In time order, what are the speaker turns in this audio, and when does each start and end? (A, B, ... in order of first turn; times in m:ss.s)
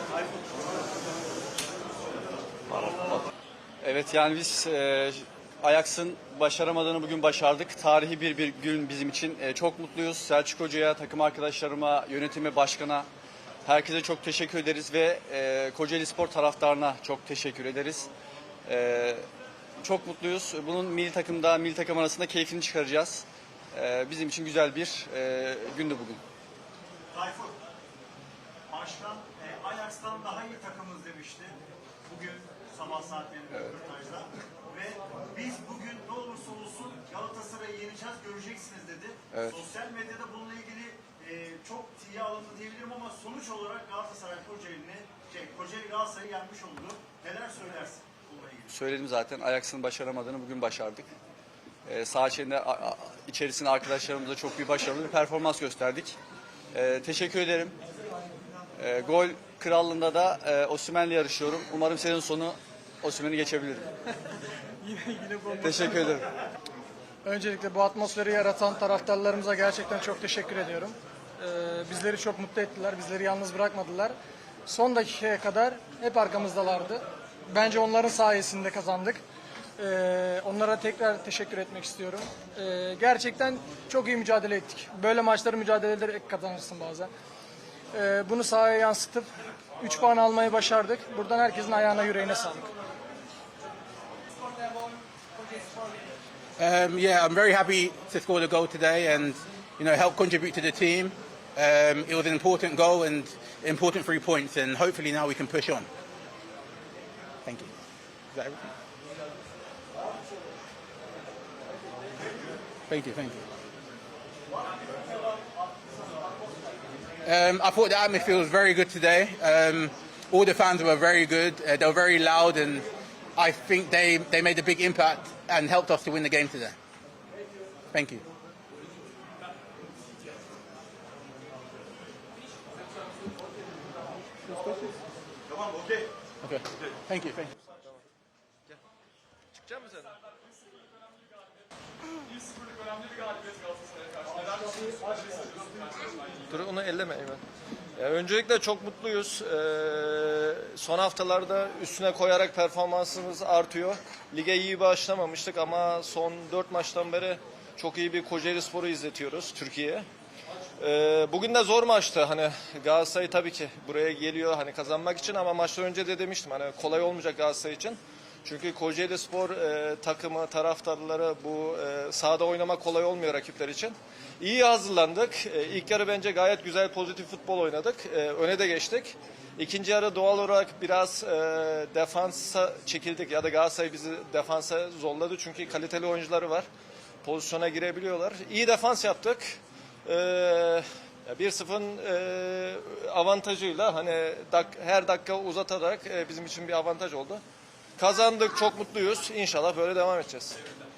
0:02.8-0:03.2 A
0:03.8-0:13.1 A
0:13.6-0:18.1 A
0:18.7-0:19.2 A
0:19.8-0:26.2 A
0:27.1-0:27.6 B
0:28.7-0:48.8 B
0:48.7-0:51.1 A
0:51.9-0:56.2 A
0:56.7-0:57.8 A
0:58.8-1:03.9 A
1:04.8-1:06.1 C
1:05.6-1:06.2 A
1:07.2-1:14.1 C
1:14.7-1:19.2 C
1:19.8-1:27.1 C
1:27.9-1:32.7 C
1:36.6-1:45.9 D
1:47.4-1:47.7 D
1:48.3-1:48.6 D
1:52.9-1:53.4 D
1:54.5-1:56.0 B
1:57.2-2:06.8 D
2:07.9-2:08.2 D
2:14.4-2:15.0 D
2:15.5-2:16.0 B
2:16.4-2:17.5 D
2:19.6-2:20.2 E
2:24.0-2:24.3 E
2:24.5-2:25.4 B
2:26.0-2:27.4 E
2:28.0-2:40.1 E
2:40.8-3:06.7 E
3:07.2-3:17.4 E
3:18.0-3:20.6 E